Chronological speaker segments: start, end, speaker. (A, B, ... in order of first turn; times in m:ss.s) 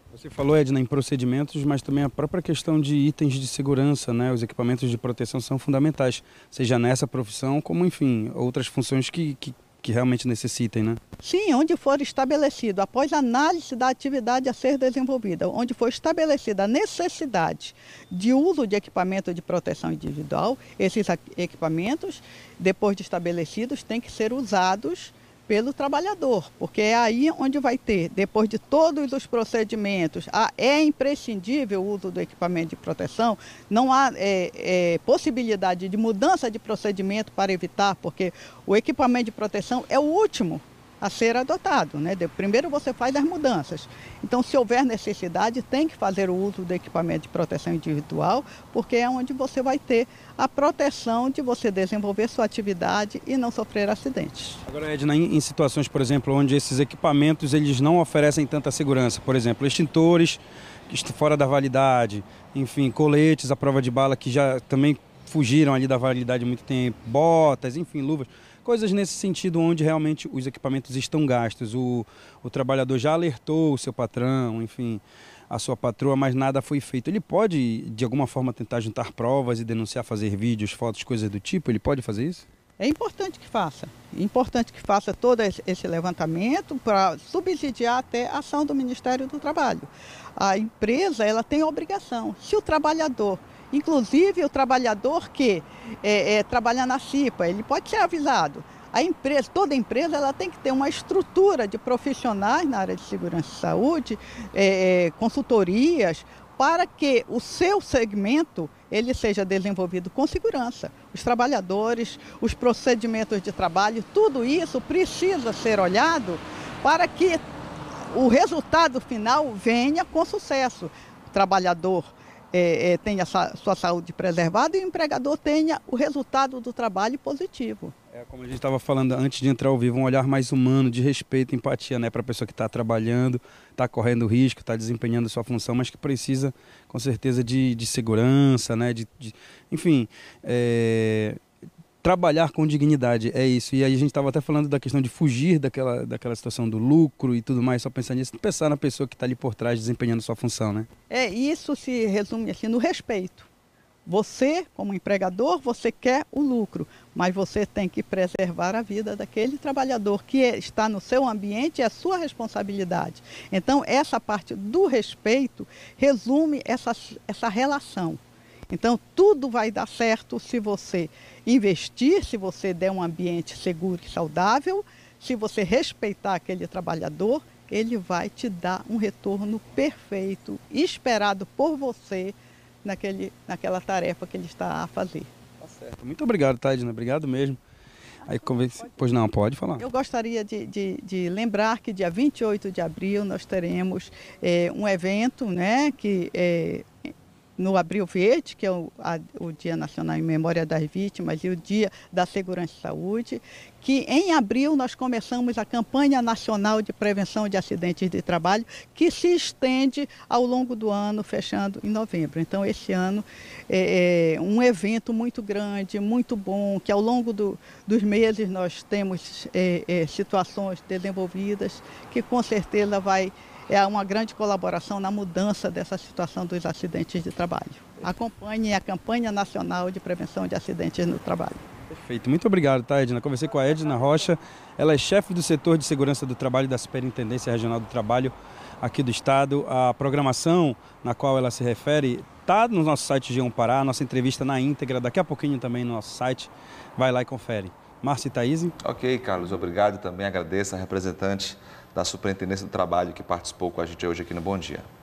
0:00.1-0:11.0 A
0:11.2-0:54.6 B
0:54.7-1:22.4 A
1:22.8-1:57.4 B
1:58.0-2:07.9 B
2:08.1-2:21.4 A
2:22.0-2:30.9 A
2:31.1-2:33.5 B
2:34.1-3:05.3 B
3:05.6-3:07.6 A
3:08.3-3:09.8 A
3:09.8-3:16.9 B
3:17.6-3:51.6 B
3:51.9-4:08.8 A
4:08.8-4:14.9 C